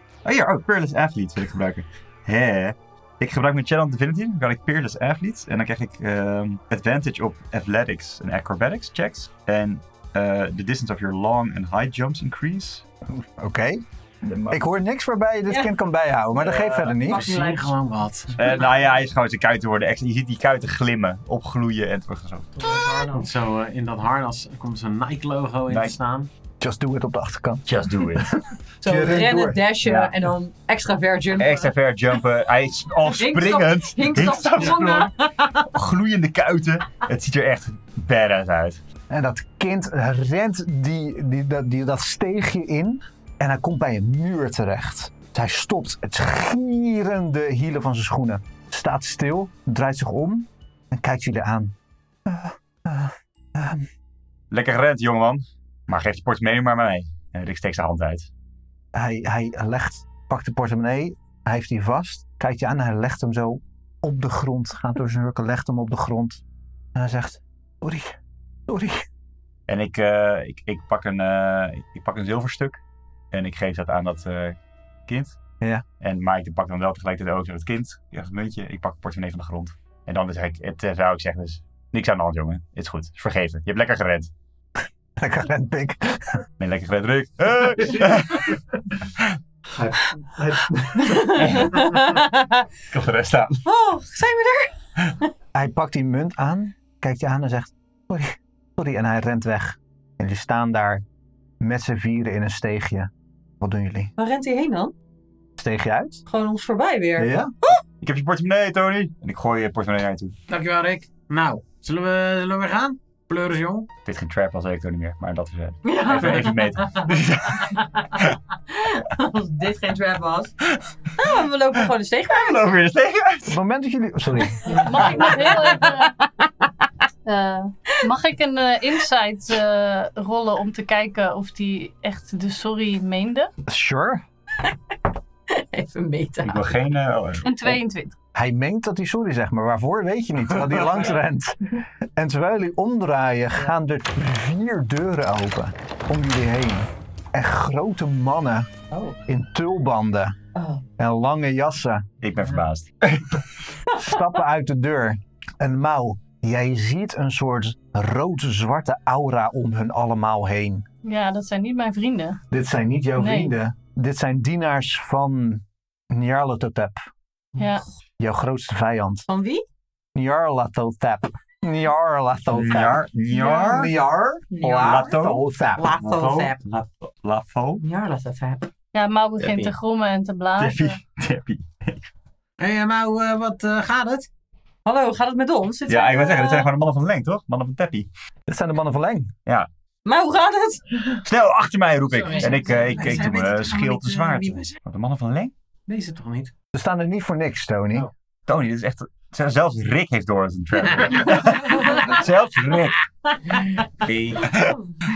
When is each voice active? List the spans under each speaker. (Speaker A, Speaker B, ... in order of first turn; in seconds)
Speaker A: 0.2-12.8, 14.2-14.6, 18.4-22.5, 25.7-25.9, 27.6-28.4, 29.8-30.1, 31.4-38.8, 54.5-58.3, 69.7-72.8, 73.3-75.4, 76.0-84.3, 86.6-89.4, 91.2-92.2, 92.9-93.6, 108.0-110.3, 114.0-118.4, 122.3-123.6, 136.4-137.8, 152.2-153.4, 172.5-173.9, 174.6-177.8, 180.6-182.0, 185.9-188.1, 191.2-195.5, 198.5-203.1, 203.9-204.8
Speaker B: 13.1-13.8, 14.5-17.3, 26.6-29.7, 39.1-51.7, 52.2-53.9, 58.9-66.4, 66.9-69.0, 85.2-86.4, 89.8-91.3, 95.5-101.0, 101.6-104.1, 105.6-106.2, 107.2-107.5, 123.5-124.6, 133.7-134.2, 138.3-148.7, 149.3-150.4, 151.0-152.1, 153.9-160.8, 162.5-167.0, 168.2-169.2, 170.1-175.9, 188.5-189.3, 196.7-198.1
Speaker C: 16.6-18.4, 23.1-26.3, 110.5-113.9, 182.6-184.3, 192.1-194.1, 195.9-196.5
Speaker D: 17.0-17.7, 22.6-23.3, 28.8-31.7, 33.0-35.7, 91.0-92.7, 93.6-94.7, 104.2-104.9, 106.2-107.8, 115.8-120.5, 121.1-122.7, 124.6-126.9, 135.5-136.8, 148.9-149.2, 150.5-150.8, 169.3-169.6, 174.5-175.1, 175.7-176.6, 177.8-178.7, 184.8-186.7, 190.0-191.2, 192.2-194.6, 201.8-202.2, 203.5-203.8
Speaker E: 124.7-126.1, 127.2-133.5, 137.4-138.1, 161.0-162.4, 163.2-163.5, 167.6-167.8, 173.4-173.6, 178.9-181.0